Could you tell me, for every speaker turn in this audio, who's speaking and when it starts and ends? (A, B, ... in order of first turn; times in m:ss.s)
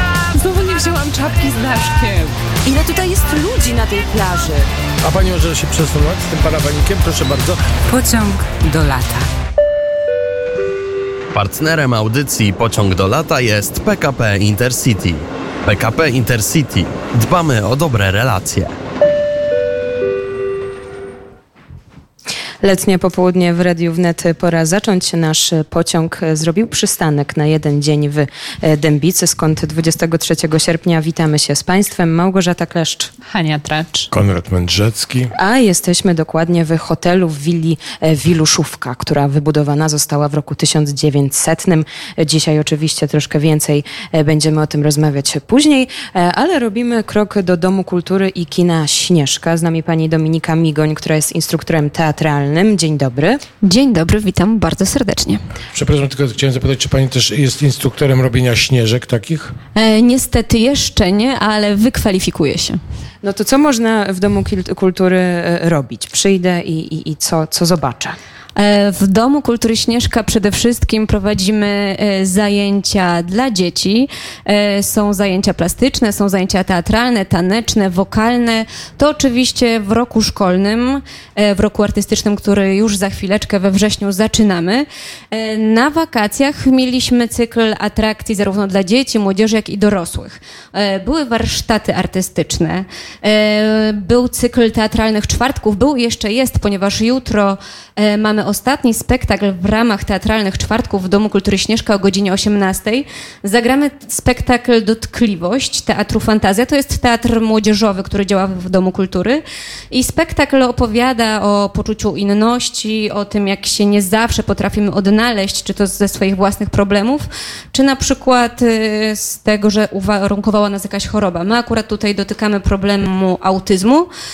0:00.3-0:02.3 A
0:02.6-0:04.7 B
0:05.0-0:07.6 C
0:07.9-0:09.2 A
0:11.3-0:18.7 D
0:22.6-0:33.1 B
0:33.3-0:34.1 A
0:34.1-0:35.3 C
0:35.4-0:53.4 B
0:53.6-0:55.4 E
0:55.7-0:59.6 C
0:59.8-1:02.8 E
1:03.2-1:08.2 B
1:08.6-2:04.1 E